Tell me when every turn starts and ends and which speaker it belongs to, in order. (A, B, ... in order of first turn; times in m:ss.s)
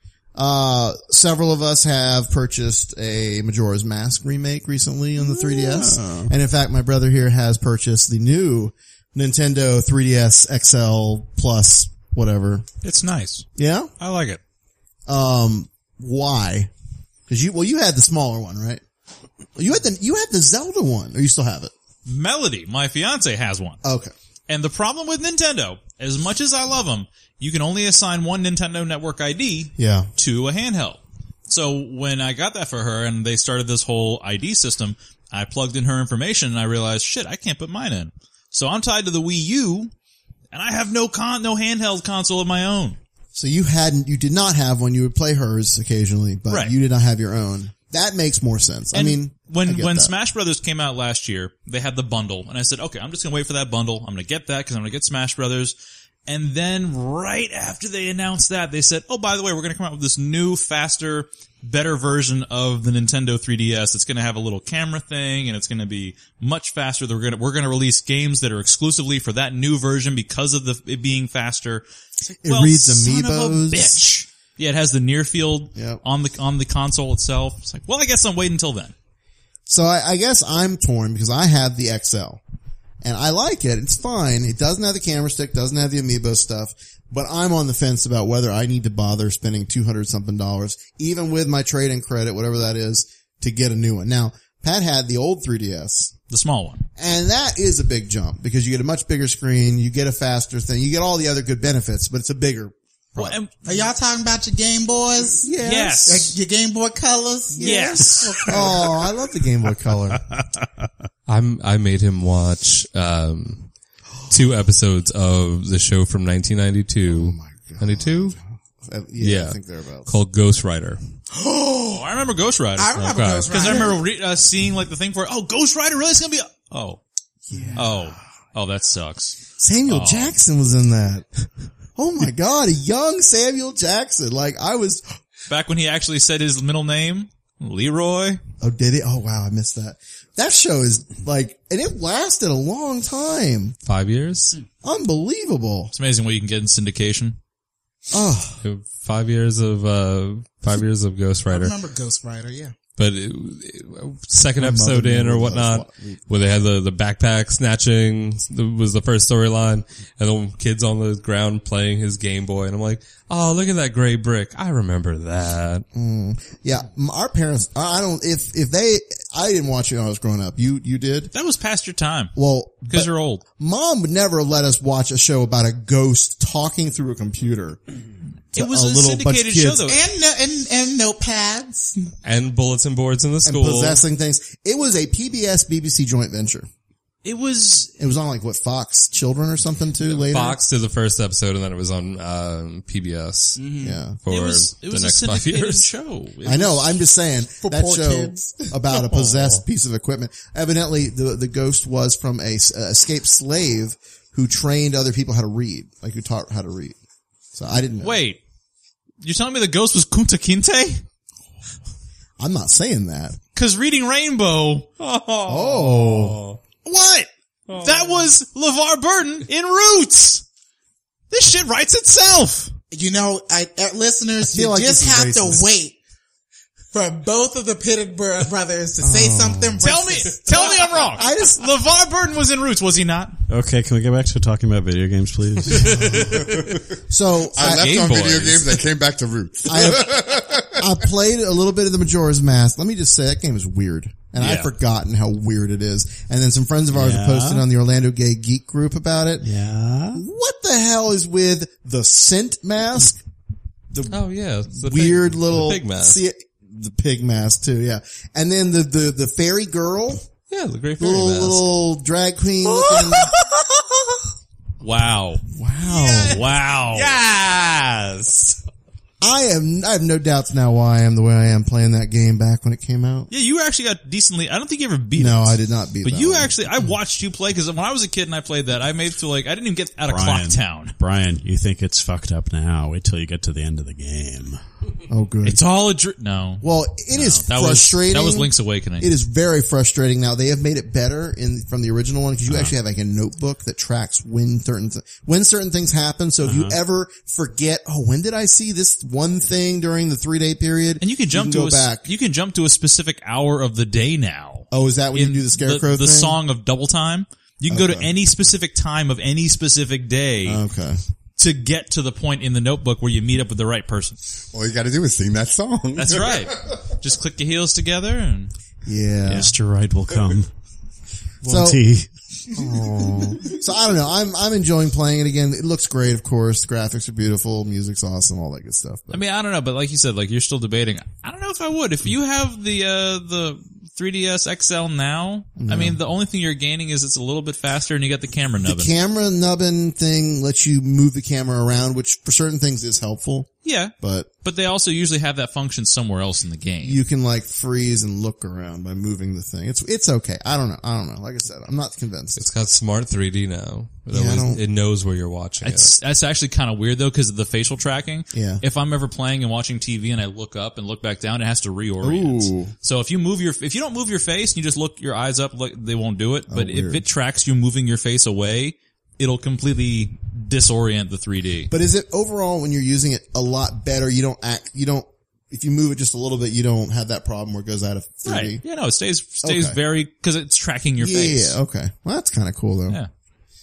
0:00.4-0:12.7 A
0:05.2-0:06.3 B
0:12.8-0:13.5 C
0:13.6-0:13.9 A
0:14.0-0:14.4 C
0:15.1-0:16.7 A
0:17.3-0:18.8 A
0:19.6-0:21.7 A
0:22.1-0:23.8 C
0:23.8-0:24.1 A
0:24.5-0:39.9 C
0:29.8-0:30.1 A
0:40.5-0:43.0 C
0:43.3-0:50.1 A
0:46.5-0:46.8 C
0:48.9-0:55.8 C
0:56.3-1:18.9 C
1:12.4-1:14.0 A
1:15.8-1:16.0 A
1:19.7-1:22.4 A
1:23.0-1:36.1 A
1:36.3-1:36.9 C
1:37.0-1:43.4 A
1:43.2-1:43.5 C
1:43.6-1:45.5 D
1:45.4-1:46.1 A
1:45.6-1:46.4 C
1:46.1-1:48.7 D
1:47.6-1:50.3 A
1:47.6-1:48.6 C
1:51.3-1:53.7 E
1:54.3-1:58.4 E
1:57.1-2:00.1 A
1:59.2-2:01.0 E
2:01.3-2:02.0 D
2:01.9-2:02.9 C
2:02.8-2:04.0 D
2:03.0-2:03.7 E
2:03.5-2:07.0 C
2:07.5-2:08.1 A
2:07.8-2:09.4 C
2:09.6-2:11.3 A
2:09.9-2:10.4 C
2:12.0-2:15.0 A
2:15.5-2:18.4 C
2:18.6-2:23.8 A
2:23.9-2:24.6 E
2:24.8-2:25.9 A
2:25.9-2:27.4 C
2:28.1-2:28.6 A
2:28.6-2:31.8 E
2:31.5-2:32.7 D
2:33.0-2:45.8 E
2:34.6-2:36.4 A
2:45.9-2:51.3 A
2:51.3-2:52.3 C
2:52.4-2:57.8 A
2:52.9-2:53.4 C
2:58.5-2:59.9 A
2:58.6-3:00.0 C
2:59.9-3:02.1 D
3:02.2-3:04.0 E
3:03.4-3:06.7 A
3:07.2-3:07.9 C
3:08.0-3:10.6 A
3:10.1-3:13.6 E
3:13.6-3:14.0 D
3:13.8-3:14.2 A
3:14.2-3:15.9 E
3:14.3-3:16.9 C
3:16.4-3:27.0 A
3:17.6-3:18.7 D
3:27.5-3:28.2 A
3:28.0-3:28.4 C
3:29.2-3:31.0 C
3:32.4-3:33.4 A
3:33.6-3:34.9 C
3:35.0-3:36.6 E
3:35.4-3:36.4 A
3:36.8-3:40.4 C
3:37.7-3:38.3 E
3:41.3-3:42.7 C
3:42.9-3:46.0 D
3:44.5-3:45.7 A
3:46.9-3:51.2 D
3:49.0-3:49.8 A
3:49.8-3:53.4 C
3:51.1-3:51.6 A
3:53.5-3:56.1 B
3:55.8-3:56.4 A
3:56.4-3:56.7 F
3:57.1-3:58.0 A
3:57.5-4:00.8 F
3:57.6-3:58.8 C
3:59.7-4:09.5 A
4:04.4-4:04.7 C
4:06.9-4:07.7 B
4:09.4-4:10.2 B
4:10.1-4:13.2 A
4:13.9-4:20.2 A
4:14.1-4:16.2 E
4:20.5-4:21.7 E
4:21.0-4:23.3 A
4:24.8-4:25.4 C
4:25.5-4:26.4 A
4:26.0-4:28.6 E
4:26.2-4:27.2 C
4:29.2-4:33.3 A
4:33.3-4:41.0 C
4:35.2-4:36.6 A
4:40.1-4:44.6 B
4:45.1-4:45.6 A
4:45.4-4:49.1 C
4:46.6-5:02.1 A
4:56.4-4:56.8 B
5:01.0-5:10.6 C
5:04.7-5:06.4 A
5:07.7-5:08.2 A
5:10.4-5:11.0 A
5:11.4-5:14.2 C
5:14.5-5:16.8 F
5:16.0-5:18.5 C
5:18.9-5:19.5 A
5:19.2-5:20.5 B
5:21.4-5:22.1 B
5:21.4-5:21.8 A
5:22.5-5:29.2 A
5:29.1-5:38.9 C
5:35.6-5:36.0 A
5:38.6-5:44.3 A
5:43.6-5:47.0 C
5:46.8-5:52.4 A
5:52.4-5:56.0 E
5:54.1-5:54.6 A
5:55.6-6:11.7 C
5:58.3-5:58.6 A
6:02.0-6:02.7 A
6:06.5-6:07.0 A
6:11.7-6:18.6 A
6:18.2-6:21.6 C
6:19.4-6:19.8 A
6:21.0-6:23.0 A